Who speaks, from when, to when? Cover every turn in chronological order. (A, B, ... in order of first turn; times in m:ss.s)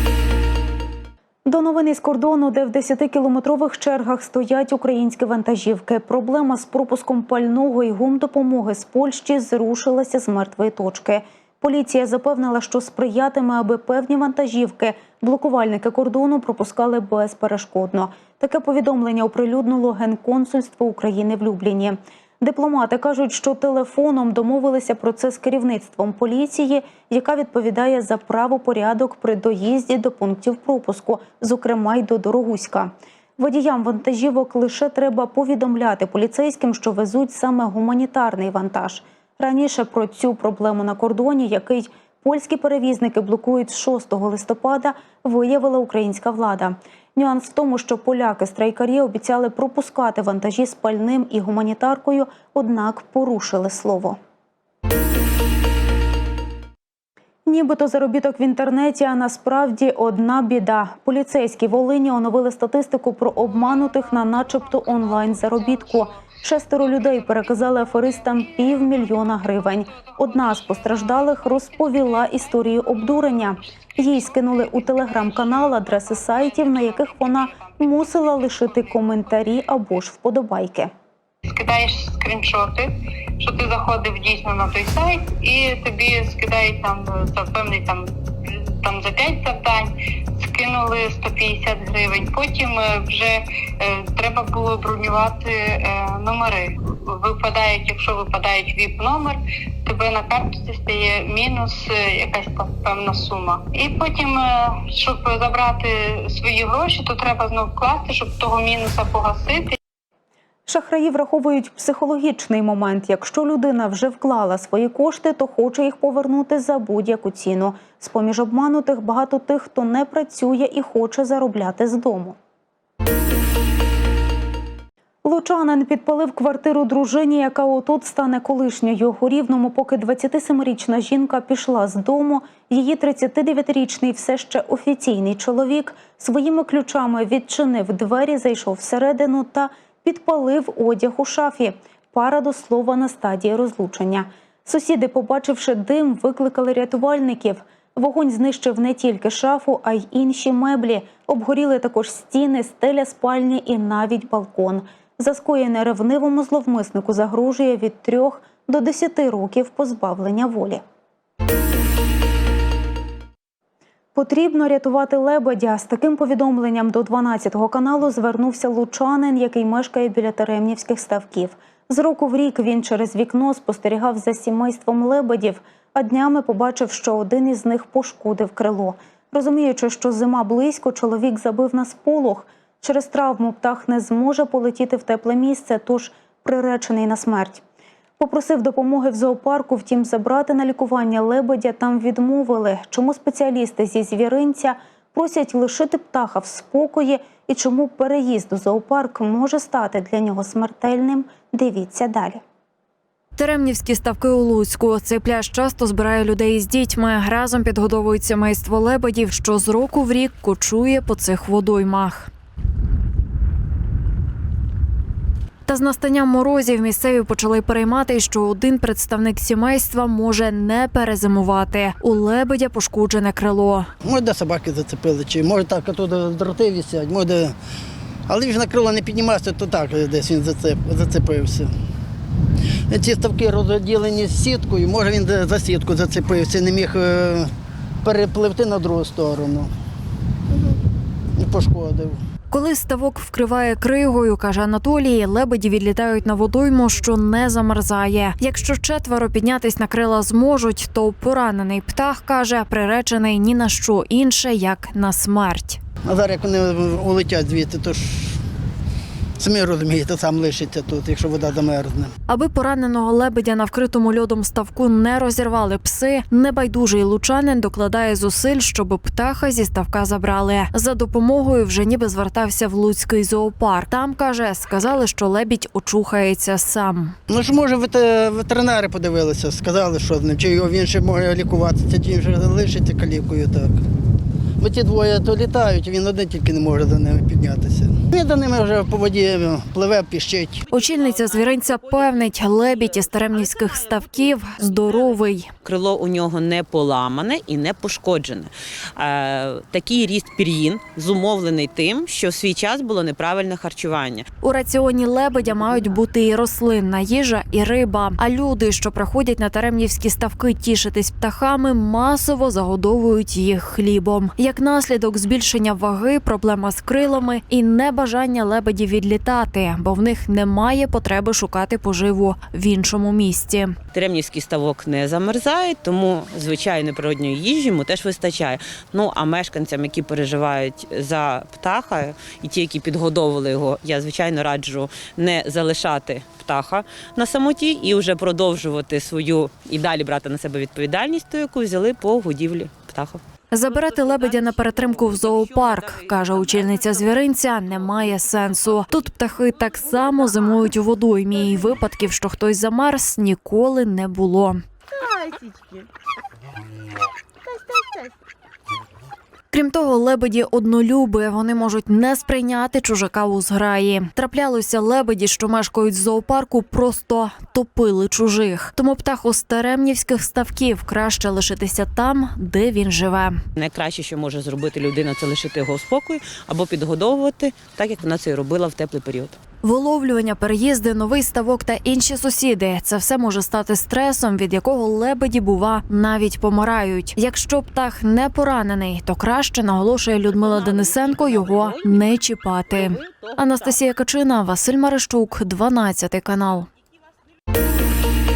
0:01.5-0:54.2 A
0:57.5-1:20.9 A
1:16.7-1:17.8 B
1:21.5-1:28.1 B
1:28.8-1:49.8 B
1:50.7-2:02.4 A
2:05.2-2:40.8 A
2:44.2-3:07.6 A
3:08.2-3:22.4 A
3:23.4-3:32.3 C
3:35.7-3:43.9 C
3:44.0-3:47.6 D
3:48.3-3:51.7 D
3:52.9-3:57.5 D
3:58.0-3:59.7 D
4:01.4-4:02.2 D
4:02.5-4:15.8 C
4:16.0-4:18.4 D
4:19.4-4:22.1 D
4:22.3-4:37.2 C
4:37.3-4:43.8 D
4:44.6-4:50.6 D
4:50.7-4:55.5 C
4:55.6-5:04.2 E
5:04.4-5:23.8 C
5:23.9-5:43.2 E
5:43.5-5:54.6 C
5:44.1-5:46.8 E
5:59.5-6:13.4 C
6:13.6-6:19.4 E
6:19.6-6:36.7 C
6:30.3-6:32.1 E
6:32.7-6:33.8 E